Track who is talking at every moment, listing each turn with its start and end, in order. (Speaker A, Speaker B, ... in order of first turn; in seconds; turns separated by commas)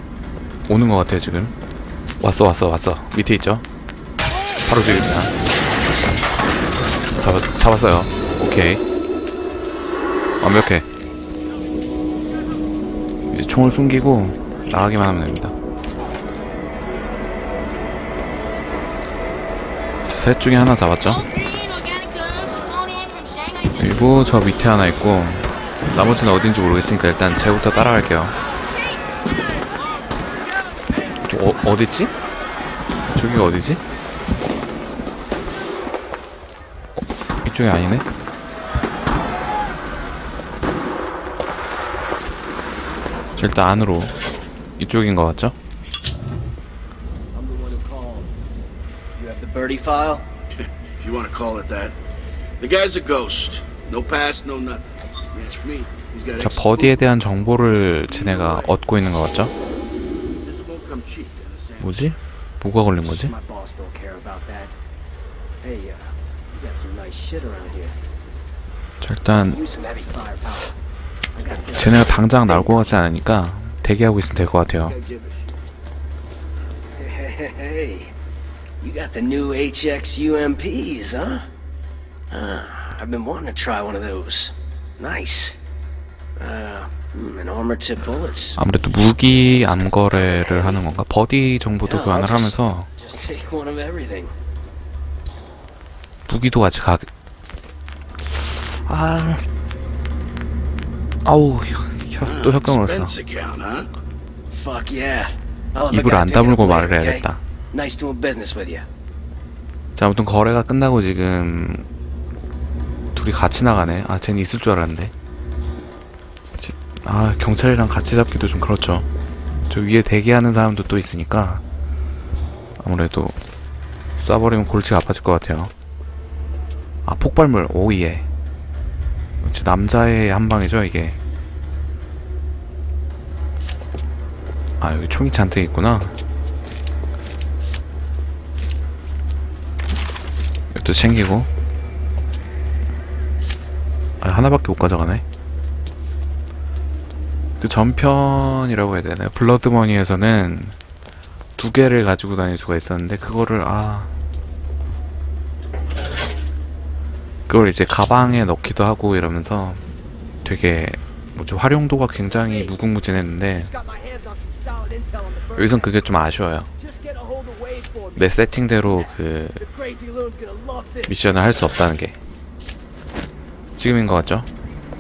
Speaker A: 0.7-1.5, Speaker A: 2.2-3.6, Speaker A: 4.7-5.3, Speaker A: 7.2-8.8, Speaker A: 10.4-10.9, Speaker A: 13.3-15.6, Speaker A: 20.1-21.3, Speaker A: 23.8-28.4, Speaker A: 31.2-32.1, Speaker A: 33.1-33.8, Speaker A: 37.5-38.1, Speaker A: 43.4-44.1, Speaker A: 44.8-45.5, Speaker B: 47.3-48.3, Speaker B: 49.2-50.3, Speaker C: 51.0-52.0, Speaker C: 52.6-56.7, Speaker A: 56.4-59.5, Speaker C: 60.4-61.8, Speaker A: 61.8-63.3, Speaker B: 63.0-64.8, Speaker B: 65.6-68.0, Speaker A: 69.0-69.6, Speaker B: 69.5-70.8, Speaker B: 71.3-72.7, Speaker A: 71.8-75.0, Speaker C: 74.9-75.5, Speaker B: 77.0-78.1, Speaker B: 78.8-81.5, Speaker B: 82.3-85.6, Speaker B: 86.4-88.6, Speaker A: 88.6-92.9, Speaker B: 89.5-90.8, Speaker B: 91.8-94.3, Speaker A: 96.3-97.1, Speaker A: 98.2-99.4, Speaker A: 101.2-103.2, Speaker C: 102.2-103.9, Speaker B: 104.5-108.9, Speaker A: 105.9-107.4, Speaker A: 110.0-111.8, Speaker A: 113.2-115.1, Speaker A: 116.6-119.1, Speaker A: 119.7-121.6, Speaker A: 122.8-123.4, Speaker A: 124.2-125.7, Speaker A: 127.0-128.3, Speaker A: 129.4-131.2, Speaker A: 134.8-136.1, Speaker A: 140.7-141.5, Speaker A: 144.2-145.2, Speaker A: 147.6-150.8, Speaker A: 151.6-154.1, Speaker A: 157.5-159.8, Speaker A: 160.4-163.7, Speaker B: 164.0-165.2, Speaker A: 165.5-166.7, Speaker B: 167.0-168.0, Speaker A: 168.2-169.7, Speaker B: 169.8-171.0, Speaker A: 171.1-172.2, Speaker A: 173.8-174.5